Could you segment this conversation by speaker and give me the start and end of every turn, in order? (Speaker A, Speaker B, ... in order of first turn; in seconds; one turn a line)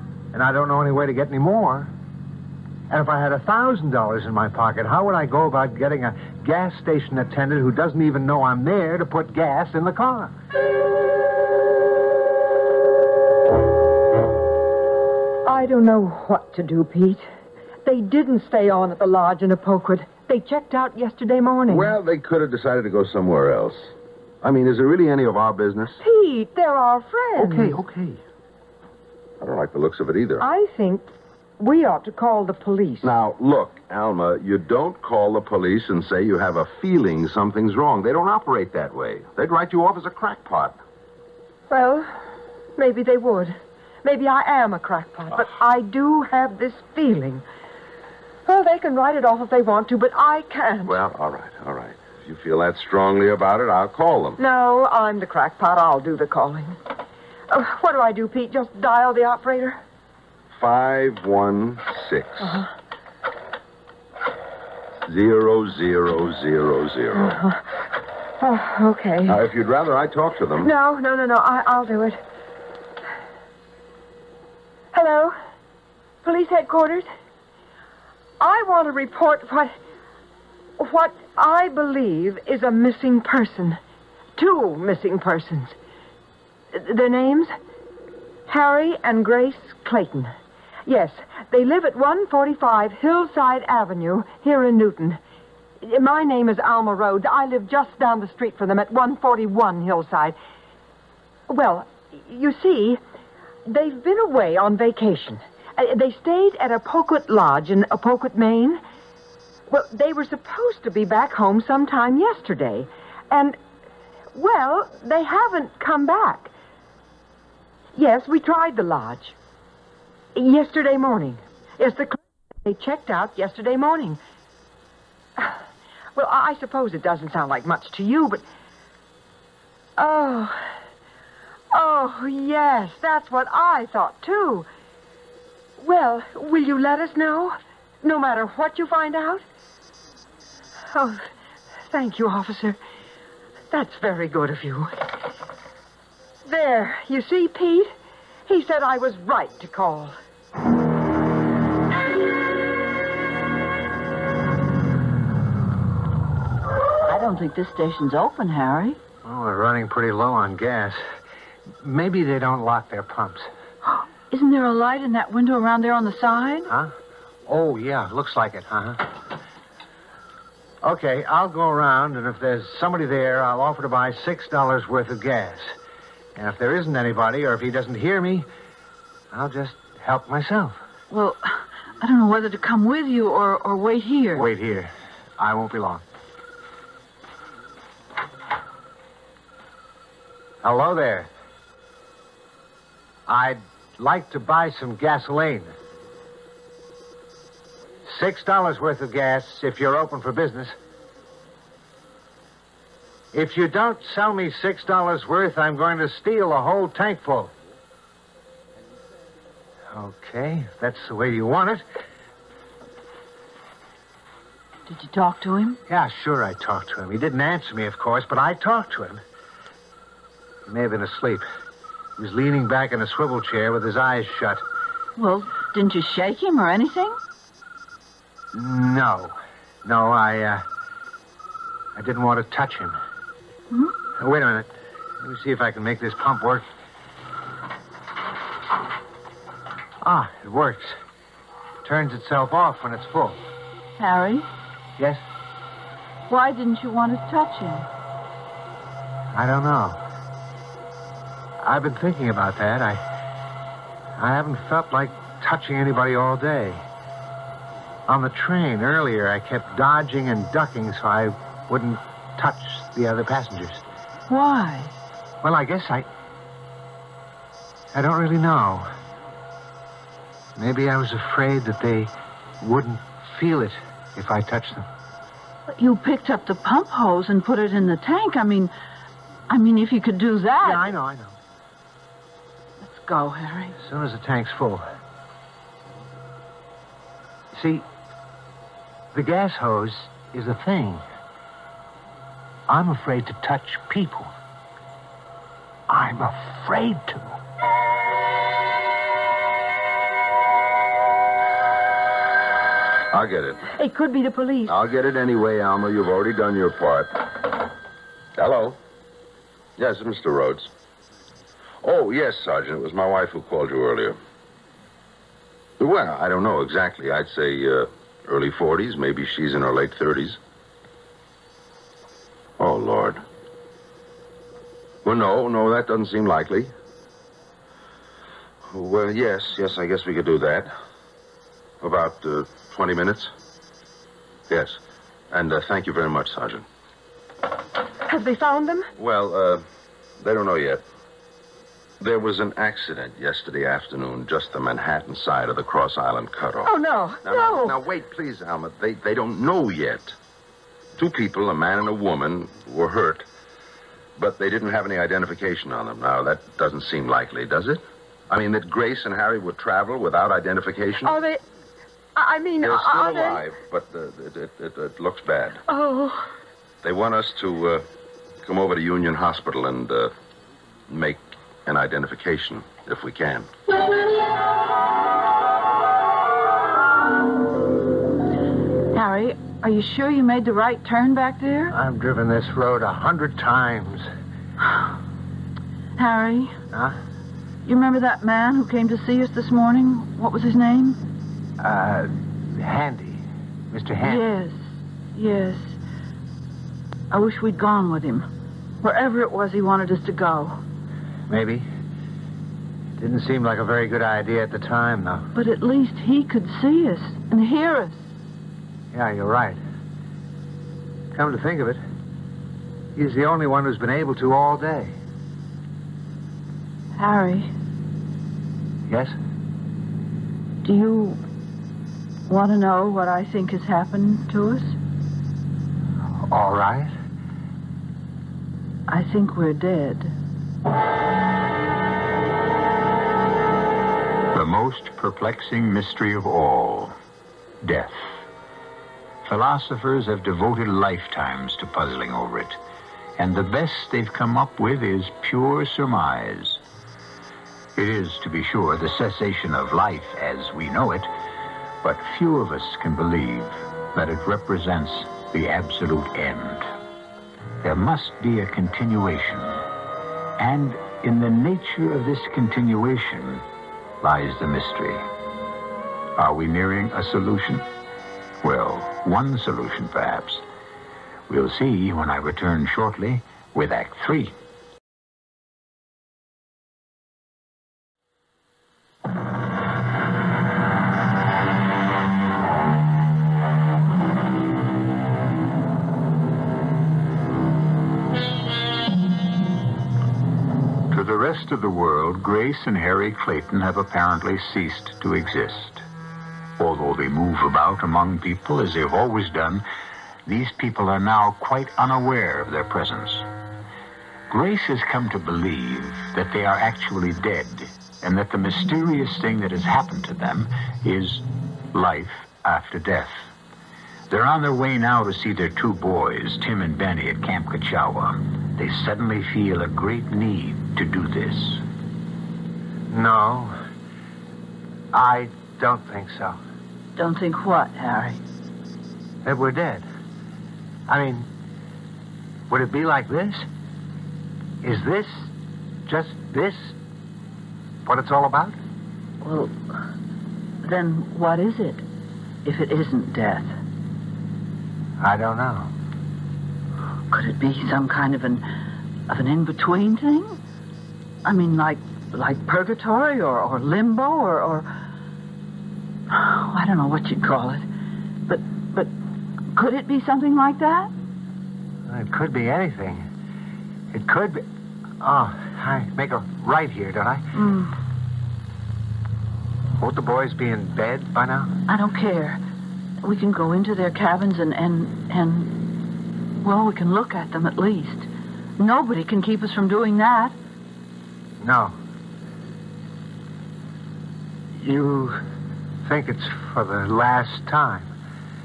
Speaker A: 0.3-1.9
Speaker A: 2.9-10.3
Speaker B: 15.4-17.2
Speaker B: 17.8-21.9
Speaker C: 21.7-26.0
Speaker B: 26.0-27.8
Speaker A: 27.4-28.2
Speaker C: 29.4-30.4
Speaker B: 30.4-31.0
Speaker B: 31.6-33.1
Speaker C: 33.0-40.8
Speaker B: 41.7-42.1
Speaker B: 42.8-47.4
Speaker B: 48.5-51.0
Speaker C: 50.8-54.4
Speaker B: 54.4-56.8
Speaker B: 57.5-59.8
Speaker C: 60.5-62.6
Speaker B: 62.4-62.7
Speaker C: 65.0-67.4
Speaker B: 67.1-67.6
Speaker B: 68.4-69.4
Speaker C: 69.2-70.7
Speaker B: 70.6-72.2
Speaker B: 74.9-75.3
Speaker B: 76.2-77.1
Speaker B: 78.4-79.7
Speaker B: 80.8-83.8
Speaker B: 84.4-85.8
Speaker B: 86.7-87.5
Speaker B: 88.5-90.3
Speaker B: 90.8-95.2
Speaker B: 95.8-100.4
Speaker B: 101.5-103.0
Speaker B: 103.7-108.8
Speaker B: 109.7-113.6
Speaker B: 114.3-116.5
Speaker B: 117.9-119.3
Speaker B: 120.3-124.2
Speaker B: 126.1-128.4
Speaker B: 130.0-130.7
Speaker B: 131.7-134.7
Speaker B: 135.8-139.4
Speaker B: 140.9-141.3
Speaker B: 141.9-142.8
Speaker B: 143.7-145.0
Speaker B: 146.4-147.9
Speaker B: 148.5-150.1
Speaker D: 157.1-159.0
Speaker A: 159.2-161.0
Speaker A: 161.8-163.5
Speaker D: 163.9-166.7
Speaker A: 166.7-166.9
Speaker A: 167.5-169.1
Speaker A: 170.8-175.7
Speaker A: 176.3-178.5
Speaker A: 179.3-180.8
Speaker D: 181.1-184.5
Speaker A: 184.3-186.0
Speaker A: 190.6-191.3
Speaker A: 193.3-195.7
Speaker A: 198.0-200.8
Speaker A: 203.3-207.5
Speaker A: 209.9-211.8
Speaker D: 214.9-215.8
Speaker A: 215.9-219.2
Speaker A: 220.7-221.4
Speaker A: 222.2-224.6
Speaker D: 225.2-227.2
Speaker A: 228.5-230.6
Speaker A: 231.9-233.0
Speaker A: 234.2-236.7
Speaker A: 240.0-241.0
Speaker A: 241.8-243.4
Speaker D: 244.0-244.5
Speaker D: 246.3-247.9
Speaker A: 249.3-250.0
Speaker A: 251.6-253.0
Speaker A: 254.2-256.8
Speaker A: 258.1-263.8
Speaker D: 264.3-264.9
Speaker A: 265.4-266.1
Speaker A: 267.9-268.9
Speaker A: 270.6-274.9
Speaker D: 275.7-278.7
Speaker D: 279.5-280.9
Speaker A: 280.6-281.4
Speaker D: 282.8-283.8
Speaker A: 283.8-284.8
Speaker A: 287.5-287.9
Speaker A: 289.1-291.0
Speaker A: 292.7-294.3
Speaker A: 295.9-297.4
Speaker C: 303.1-303.7
Speaker B: 303.8-304.8
Speaker C: 304.7-307.2
Speaker C: 308.4-308.8
Speaker C: 309.8-310.7
Speaker C: 311.8-314.2
Speaker C: 315.8-320.4
Speaker C: 322.6-323.2
Speaker C: 325.0-326.7
Speaker C: 328.7-330.7
Speaker C: 331.8-333.3
Speaker C: 334.5-334.8
Speaker C: 335.3-336.6
Speaker B: 338.1-338.9
Speaker C: 339.0-339.6
Speaker C: 340.2-340.8
Speaker C: 342.0-350.1
Speaker B: 346.6-347.8
Speaker C: 350.9-353.3
Speaker C: 354.2-361.1
Speaker B: 361.0-361.4
Speaker B: 362.1-363.4
Speaker C: 362.6-365.6
Speaker B: 365.7-366.3
Speaker C: 366.8-367.8
Speaker C: 368.4-370.1
Speaker C: 370.9-373.5
Speaker D: 378.9-381.7
Speaker A: 381.7-384.1
Speaker D: 386.0-386.6
Speaker A: 386.7-387.0
Speaker D: 387.6-391.0
Speaker A: 391.6-394.2
Speaker D: 394.0-395.8
Speaker D: 397.1-398.3
Speaker D: 398.8-400.6
Speaker A: 401.3-401.7
Speaker A: 403.0-405.3
Speaker D: 405.3-408.1
Speaker A: 408.9-409.6
Speaker A: 411.1-411.8
Speaker A: 412.9-415.0
Speaker D: 416.9-417.5
Speaker A: 418.9-419.2
Speaker D: 420.6-421.2
Speaker D: 422.3-424.8
Speaker A: 426.3-426.9
Speaker D: 428.9-430.1
Speaker E: 434.3-436.9
Speaker E: 437.6-438.2
Speaker E: 439.2-442.6
Speaker E: 443.2-446.6
Speaker E: 447.8-451.1
Speaker E: 451.8-456.7
Speaker E: 457.6-459.6
Speaker E: 460.4-463.4
Speaker E: 464.0-465.0
Speaker E: 466.2-467.6
Speaker E: 468.4-470.4
Speaker E: 471.3-474.3
Speaker E: 490.9-495.8
Speaker E: 496.6-499.6
Speaker E: 500.2-503.2
Speaker E: 504.3-513.3
Speaker E: 514.1-521.6
Speaker A: 522.9-523.6
Speaker A: 524.9-526.4
Speaker D: 527.0-528.2
Speaker A: 529.2-529.9
Speaker A: 530.9-531.3
Speaker A: 532.5-533.5
Speaker A: 534.6-535.3
Speaker A: 535.9-536.8
Speaker A: 537.8-538.6
Speaker D: 539.2-539.8
Speaker D: 540.6-541.8
Speaker D: 542.4-543.5
Speaker A: 545.0-545.7
Speaker D: 547.1-548.4
Speaker D: 549.1-550.4
Speaker D: 551.2-554.7
Speaker D: 556.1-557.6
Speaker D: 558.3-558.9
Speaker D: 559.5-560.9
Speaker A: 561.9-563.1
Speaker A: 563.9-564.4
Speaker A: 565.0-567.2
Speaker D: 567.3-567.7
Speaker A: 569.8-571.5
Speaker D: 571.7-572.4
Speaker D: 573.0-575.7
Speaker D: 576.4-580.4
Speaker A: 581.4-581.7
Speaker A: 584.5-585.2
Speaker A: 585.8-587.9